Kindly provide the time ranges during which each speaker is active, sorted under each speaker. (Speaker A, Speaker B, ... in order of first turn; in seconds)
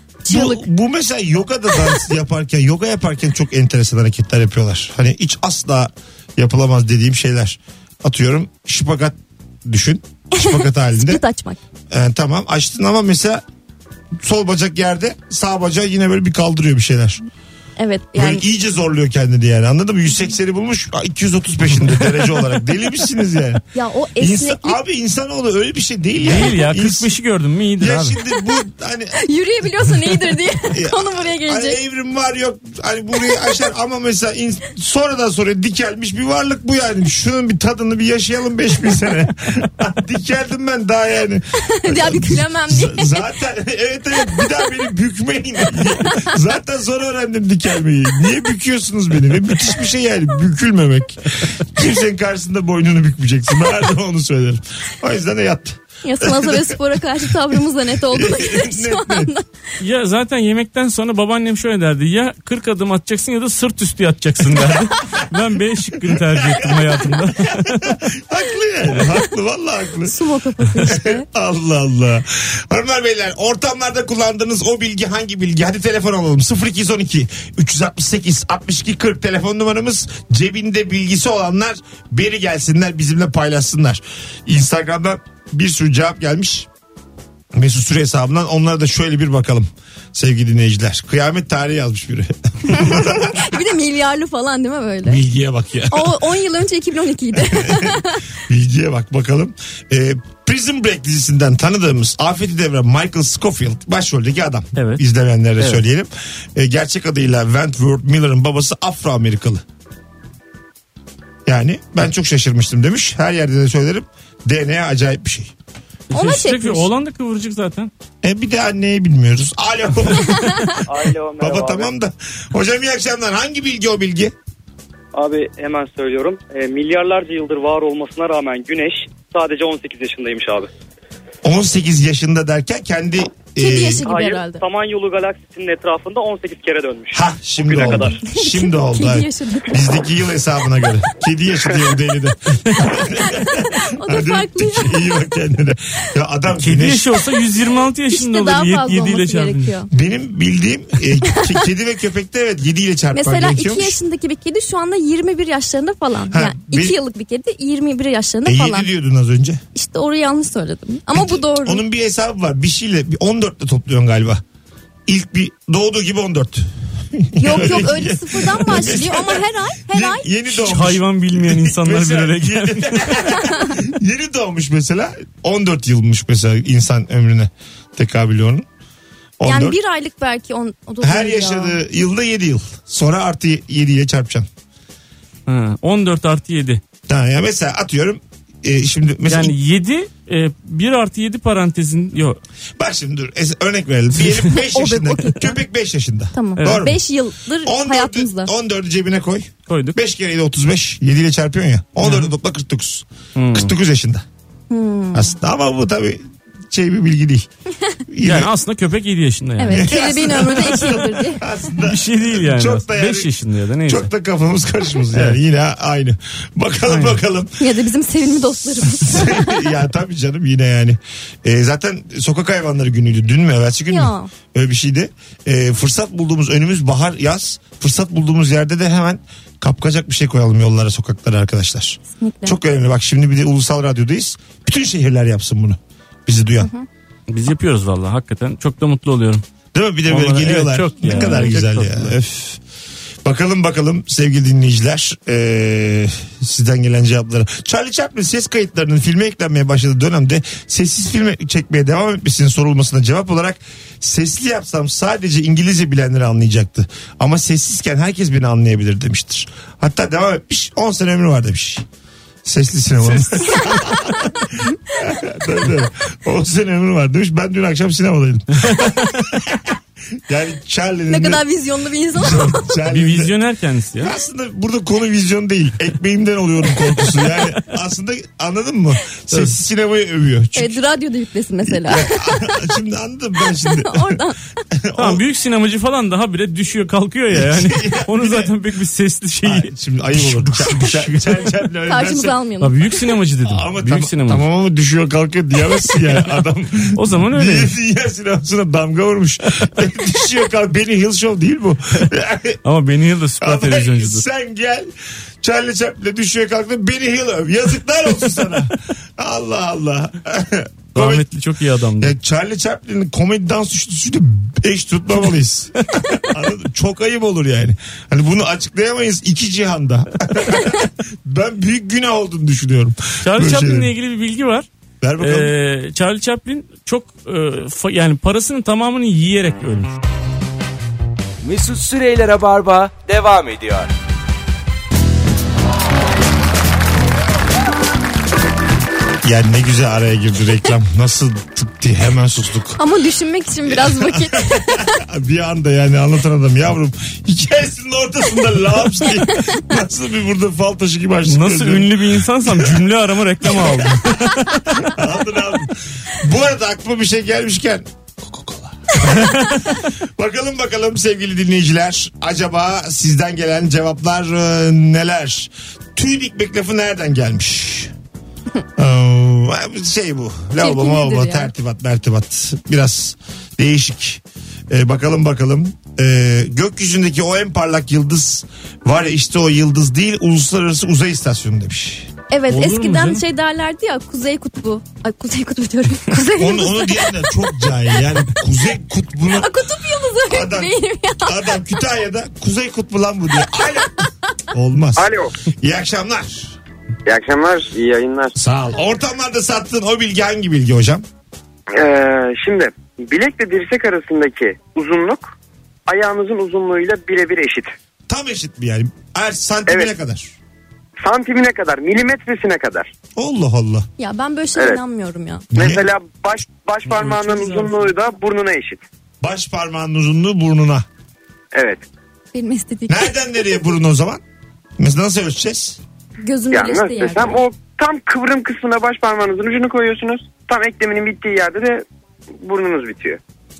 Speaker A: 0.2-0.7, 10.3-11.6, 17.8-18.4, 23.7-24.8, 29.2-31.8, 41.6-43.2, 45.8-46.3, 56.0-59.5, 70.0-71.2, 92.7-95.2, 95.9-98.2, 116.1-116.9, 120.3-120.8, 133.6-134.6, 137.8-139.8, 142.9-145.0, 148.1-149.9, 151.2-151.7, 153.1-158.9, 159.7-161.8, 167.4-170.3, 173.4-173.7, 179.4-181.8, 194.6-195.6, 196.3-198.5, 204.7-205.3, 209.6-211.4, 217.6-219.7, 223.9-224.3, 232.2-232.6, 236.6-236.8, 241.1-241.6, 271.1-272.8, 280.6-282.5, 283.6-284.4, 291.9-292.8, 342.8-345.0, 349.1-349.6, 370.6-371.5, 382.3-388.0, 389.3-391.6, 414.0-415.5, 422.3-423.5, 426.2-427.4
Speaker B: 0.3-11.2, 11.9-13.4, 14.2-17.2, 18.1-23.6, 24.2-27.1, 27.8-29.1, 30.7-57.5, 58.1-59.3, 64.5-65.2, 65.9-70.1, 70.8-86.7, 87.5-93.5, 95.0-96.2, 97.4-109.6, 111.5-115.5, 118.2-120.9, 121.4-124.3, 131.4-134.0, 137.1-147.1, 149.9-154.0, 156.3-157.0, 158.4-159.6, 161.1-164.4, 165.1-178.7, 179.4-179.8, 181.0-184.5, 187.1-189.5, 192.8-197.0, 197.6-204.2, 205.1-207.5, 208.1-208.5, 209.7-213.3, 213.8-217.6, 218.8-236.7, 239.7-242.6, 243.2-261.8, 262.4-271.4, 272.1-273.3, 274.0-280.8, 281.6-285.2, 287.3-288.5, 289.4-292.4, 293.4-302.6, 303.4-304.9, 305.4-311.3, 312.0-323.9, 325.0-325.5, 339.2-342.8, 343.6-352.9, 353.4-354.1, 354.8-367.9, 368.8-382.1, 386.4-389.5, 390.2-396.5, 398.3-401.0, 408.1-410.3, 413.1-413.9, 415.5-415.9, 419.2-420.8, 422.9-424.2, 424.8-425.8
Speaker C: 26.2-28.2, 59.8-67.9, 104.8-105.0, 116.1-117.9, 146.6-149.8, 170.5-173.3, 185.5-186.8, 189.2-192.4, 196.6-196.8, 199.7-200.0, 202.0-202.3, 203.3-203.7, 208.2-209.9, 211.8-214.1, 216.9-217.2, 237.3-239.4, 240.1-242.1, 268.6-269.1, 272.9-274.1, 285.0-290.7, 292.6-294.4, 296.0-297.7, 302.6-304.2, 310.9-312.1, 323.2-324.7, 325.2-330.0, 351.3-354.9, 359.0-359.5, 382.5-383.2, 416.9-417.9
Speaker D: 120.9-121.9, 125.1-130.7, 134.0-138.2
Speaker E: 331.4-333.9
Speaker F: 394.9-395.3, 397.0-398.3, 401.7-405.3, 405.9-407.7, 409.7-409.9, 411.0-412.9, 415.5-418.8, 421.5-421.8, 426.5-431.8, 432.4-433.2